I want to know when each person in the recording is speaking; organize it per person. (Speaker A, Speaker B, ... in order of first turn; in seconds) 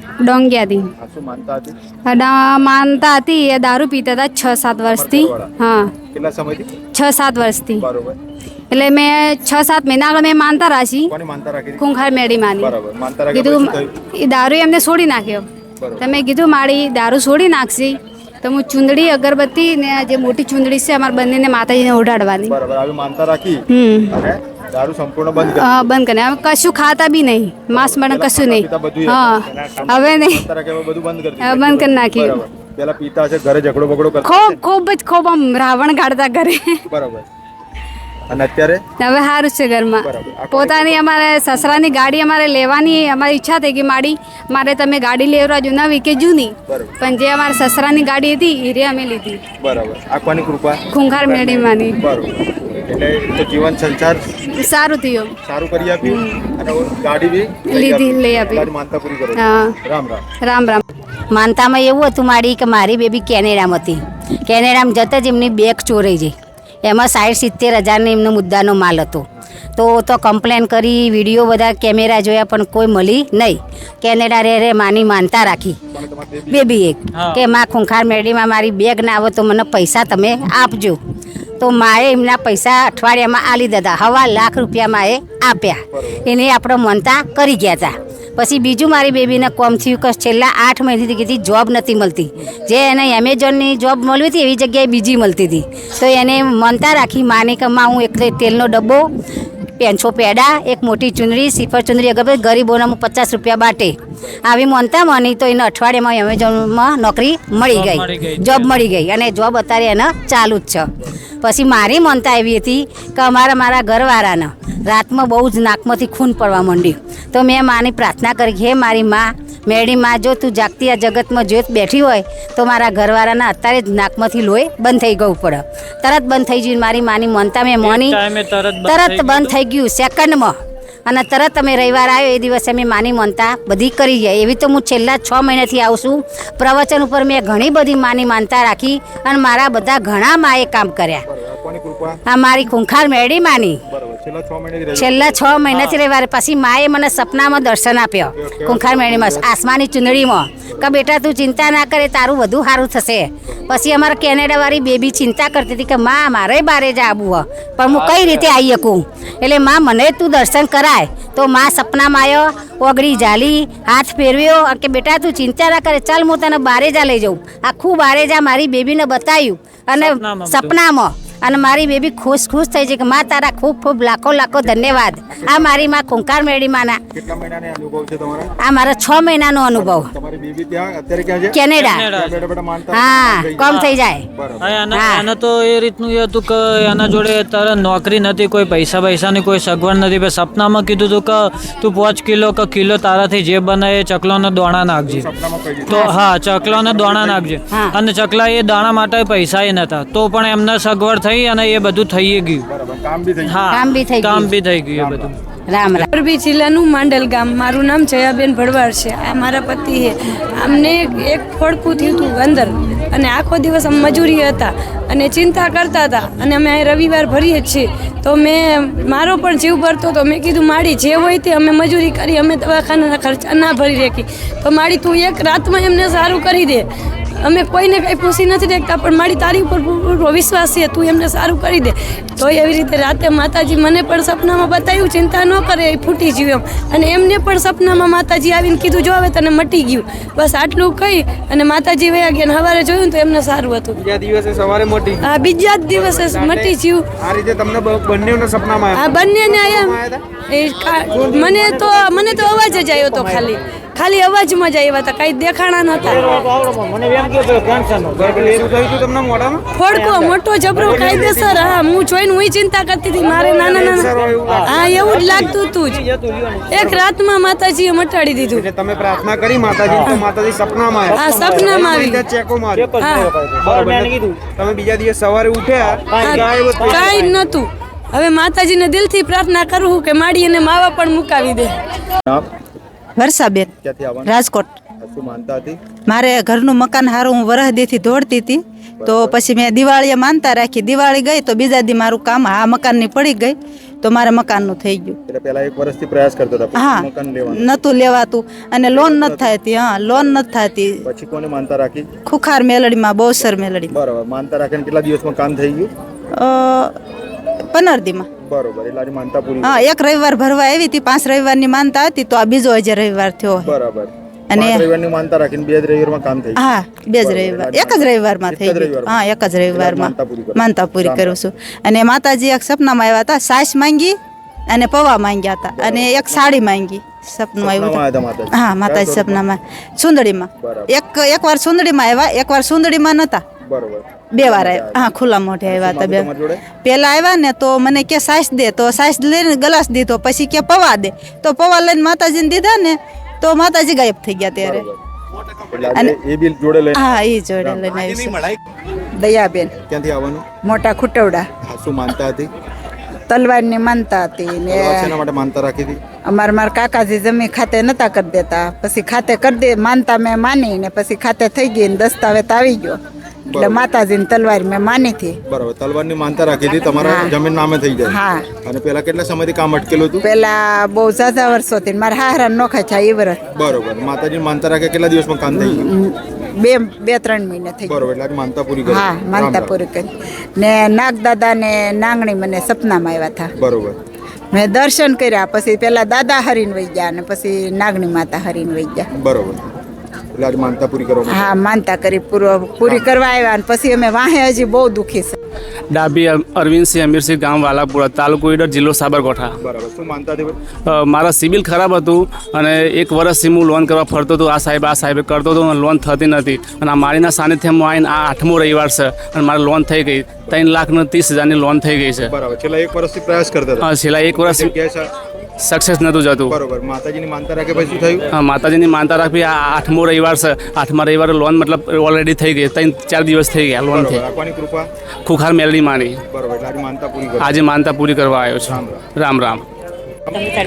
Speaker A: 0.2-0.9, 2.1-5.9, 6.9-7.9, 8.7-11.1, 11.8-12.7, 13.3-15.5, 16.0-22.6, 23.7-24.2, 25.4-30.5, 31.4-32.4, 34.2-36.8, 39.0-49.4, 50.9-52.0, 54.5-55.4, 56.0-56.3, 57.7-58.7, 59.4-59.7, 60.4-60.8
Speaker B: 1.0-1.7, 4.9-5.5, 6.1-6.7, 7.8-8.2, 11.1-11.9, 12.6-13.9, 15.8-16.1, 22.4-25.9, 27.7-34.6, 36.9-37.2, 38.3-38.8, 40.0-41.0, 49.6-54.2, 55.4-60.2, 75.9-76.8, 85.9-86.2, 141.3-142.2, 143.9-145.4, 148.4-149.5, 150.7-151.0, 174.7-175.9, 177.1-178.5, 179.8-181.6, 182.1-184.7, 195.0-197.5, 202.7-203.6, 204.9-205.3, 283.8-284.3, 285.0-285.8, 289.0-289.4, 295.3-297.8, 298.9-299.5, 301.0-302.1, 303.9-305.9, 308.4-309.8, 313.6-316.6, 317.2-319.1, 319.7-321.4, 325.8-326.5, 327.6-329.4, 330.6-330.9, 333.6-335.1, 335.6-336.6, 344.6-345.0, 345.7-347.1, 347.6-348.0, 349.9-350.4, 351.6-352.5, 354.7-356.0, 363.5-363.8, 365.5-370.2, 373.5-375.9, 377.9-379.7, 383.6-384.0, 389.1-389.6, 390.4-391.5, 399.6-400.6, 412.2-415.1, 416.5-418.3, 423.9-424.9, 426.3-427.6, 428.6-429.0
Speaker C: 61.3-66.3, 66.8-69.2, 69.8-75.8, 76.5-81.0, 81.6-99.1, 99.8-110.9, 111.4-128.2, 128.8-130.6, 131.1-141.2, 142.3-143.8, 145.0-177.0, 178.6-180.1, 181.5-182.1, 182.9-184.2, 184.9-185.2, 203.7-204.5, 205.7-206.1
Speaker D: 77.2-77.5, 107.6-108.9, 127.8-129.6, 169.9-170.8, 181.8-182.4, 183.6-183.9, 184.6-195.3, 195.9-202.6, 203.4-205.3
Speaker E: 206.0-226.9, 227.4-244.0, 245.2-247.1, 248.9-256.4, 259.7-266.0, 266.7-268.7, 269.9-270.2, 271.1-272.2, 272.9-273.3, 276.2-281.8
Speaker F: 243.9-250.2, 251.1-253.5, 256.0-256.5, 258.0-259.8, 260.7-261.8, 263.2-265.6, 268.4-277.2
Speaker G: 283.2-283.7, 284.2-284.7, 286.1-295.2, 296.8-301.1, 302.3-304.0, 306.3-306.9, 307.7-308.3, 309.6-313.7, 314.5-314.9, 316.6-324.2, 324.7-333.4, 334.3-336.3, 336.8-344.9, 347.0-348.4
Speaker H: 349.2-349.7, 350.6-351.5, 353.3-355.2, 356.3-363.0, 363.5-365.4, 367.0-367.3, 368.1-368.5, 370.2-373.4, 375.5-378.0, 378.9-383.5, 384.5-389.1, 391.3-395.4
Speaker I: 395.9-399.6, 400.9-412.3, 413.8-414.7, 415.6-416.6, 418.3-424.2, 425.3-426.2, 427.4-429.6